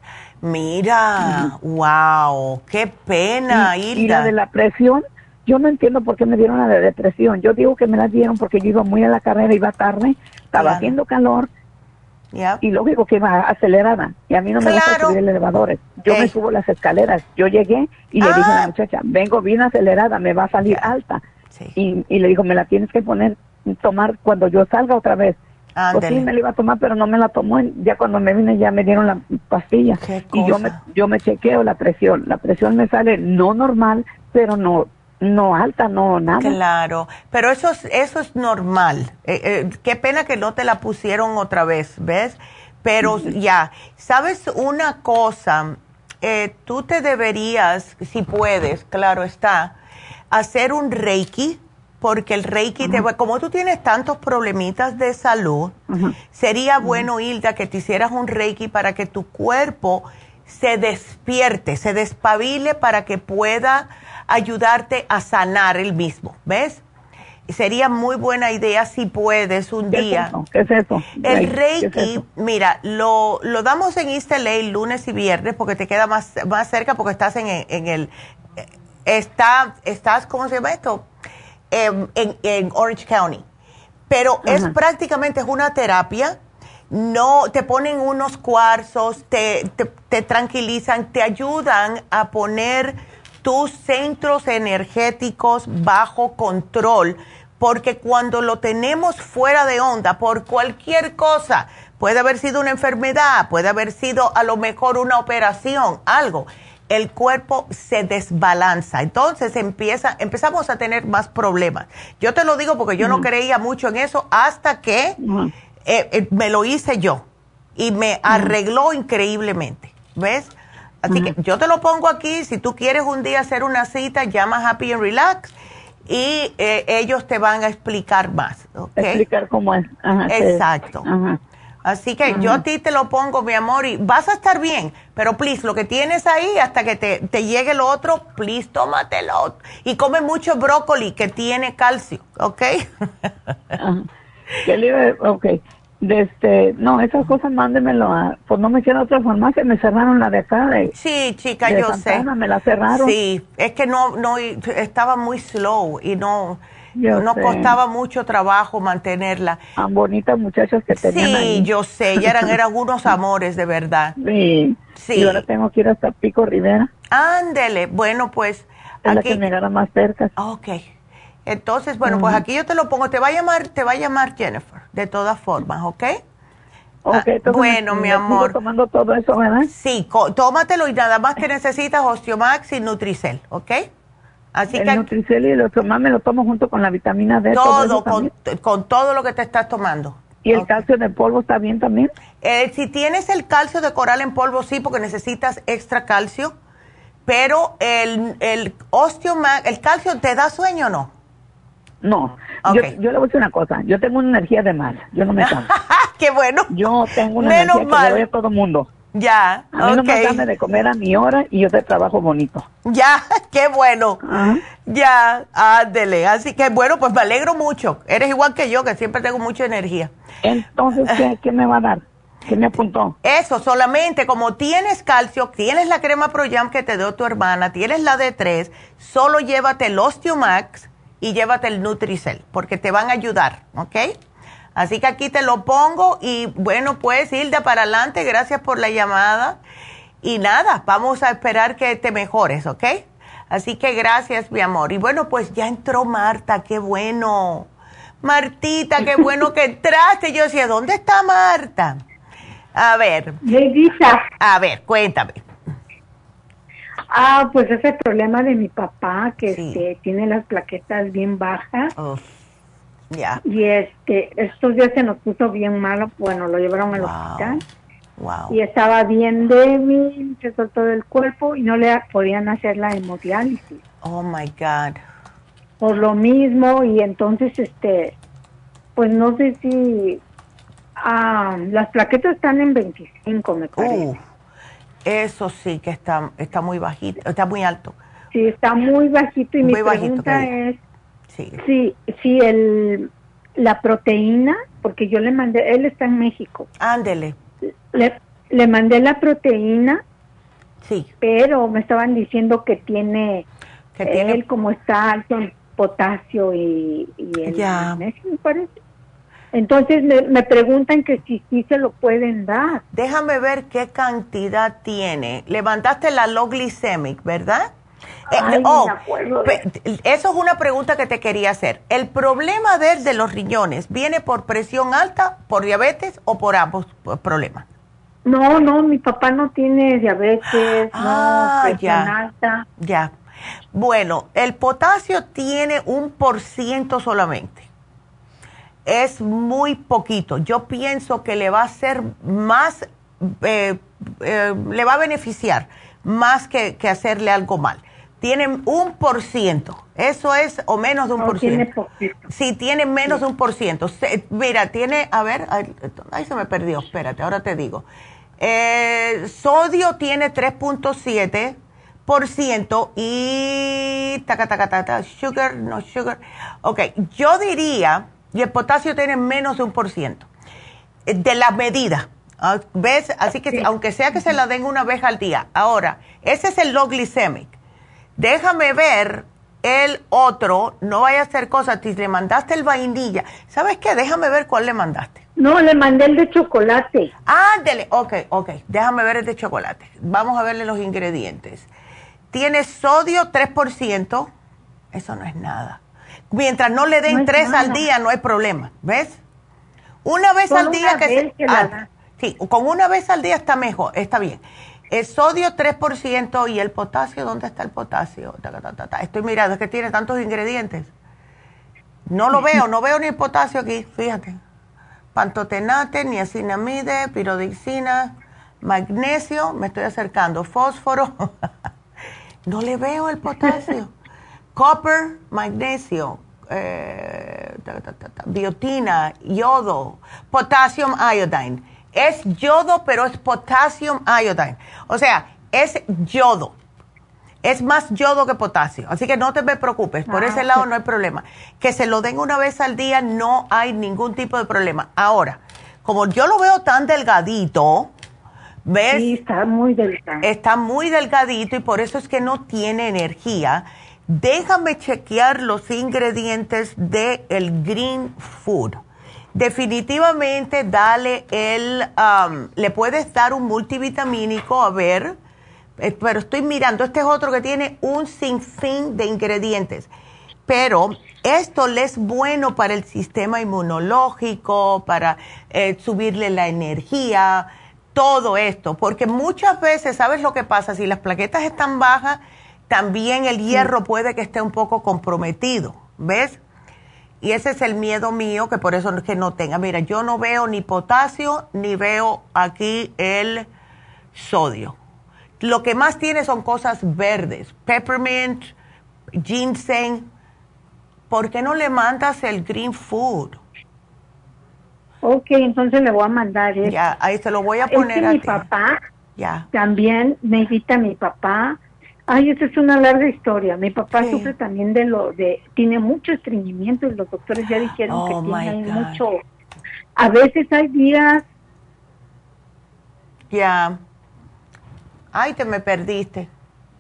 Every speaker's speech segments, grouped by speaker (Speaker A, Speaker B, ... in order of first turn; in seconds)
Speaker A: 0.4-4.3, 10.5-10.9, 12.3-12.6, 14.6-15.2, 16.1-16.3, 18.2-18.7, 20.7-20.9, 25.8-26.3, 30.0-30.8, 36.4-49.8, 50.3-55.8, 56.3-66.8, 67.5-70.3, 71.2-78.1, 79.1-81.1, 81.7-83.4, 84.1-86.4, 86.9-115.2, 115.8-117.2, 117.8-125.5, 126.1-129.2, 130.3-131.1, 131.8-143.8, 150.9-152.3, 152.9-156.6, 157.1-159.6, 161.0-164.1, 165.0-165.5, 167.1-169.4, 170.4-170.9, 171.5-176.2, 177.1-178.6, 179.7-183.9, 184.6-185.1, 187.5-190.8, 192.4-196.6, 197.3-201.1, 202.6-202.9, 205.4-208.2, 209.1-210.5, 212.9-214.2, 214.8-220.1, 221.0-221.3, 223.2-234.2, 234.8-239.6, 240.2-247.7, 248.2-252.0, 252.8-253.4, 254.4-255.4, 259.5-259.8, 262.0-262.3, 263.1-263.4, 266.9-267.6, 268.2-268.6, 274.0-275.0, 283.8-284.2, 285.1-287.9, 289.6-290.5, 291.3-291.6, 296.8-297.4, 300.8-301.1, 304.0-304.4, 307.5-308.0, 312.9-317.7, 318.3-327.6, 330.5-332.1, 332.8-333.1, 333.7-337.7, 338.9-351.7, 352.3-357.9, 358.4-370.3, 371.1-377.5, 378.2-385.2, 387.3-391.7, 392.3-394.3, 394.9-395.8, 396.3-399.2, 400.1-410.9, 412.1-414.4, 415.1-421.4, 422.5-423.9, 424.6-436.6, 437.4-447.9, 448.7-449.1, 450.2-458.8, 459.4-465.1, 465.8-469.9, 470.5-486.4, 487.2-493.5, 494.1-494.8, 495.4-498.5, 499.2-500.1, 501.1-503.4, 506.6-508.5, 509.2-509.5, 513.9-514.3, 517.9-519.0, 523.3-523.8, 525.1-526.3
Speaker B: 1.2-1.5, 3.5-11.5, 12.6-21.2, 21.8-25.4, 25.9-36.6, 43.0-43.3, 55.9-56.2, 69.9-72.2, 84.5-84.7, 113.0-113.3, 115.2-115.5, 118.3-118.5, 129.0-131.4, 132.3-132.6, 143.8-144.1, 144.7-150.9, 151.6-153.2, 157.0-157.8, 159.8-162.5, 164.2-166.9, 169.1-170.3, 172.1-172.4, 177.1-179.7, 184.7-188.3, 190.4-192.1, 202.0-205.7, 206.7-208.9, 209.7-212.7, 214.2-214.6, 220.4-223.2
Speaker C: 253.4-254.3, 257.1-261.9, 263.4-267.6, 268.5-273.8, 275.8-278.1, 279.0-280.2, 281.0-284.1, 288.3-290.8, 291.6-296.7, 297.9-300.0, 301.2-303.5, 304.1-308.7, 309.5-312.8, 318.3-319.6, 328.2-332.7, 351.2-352.3, 385.4-387.1, 397.1-397.9, 400.5-401.9, 440.1-440.6, 448.9-450.3, 505.0-506.8, 507.7-508.8, 509.5-519.2, 520.0-521.2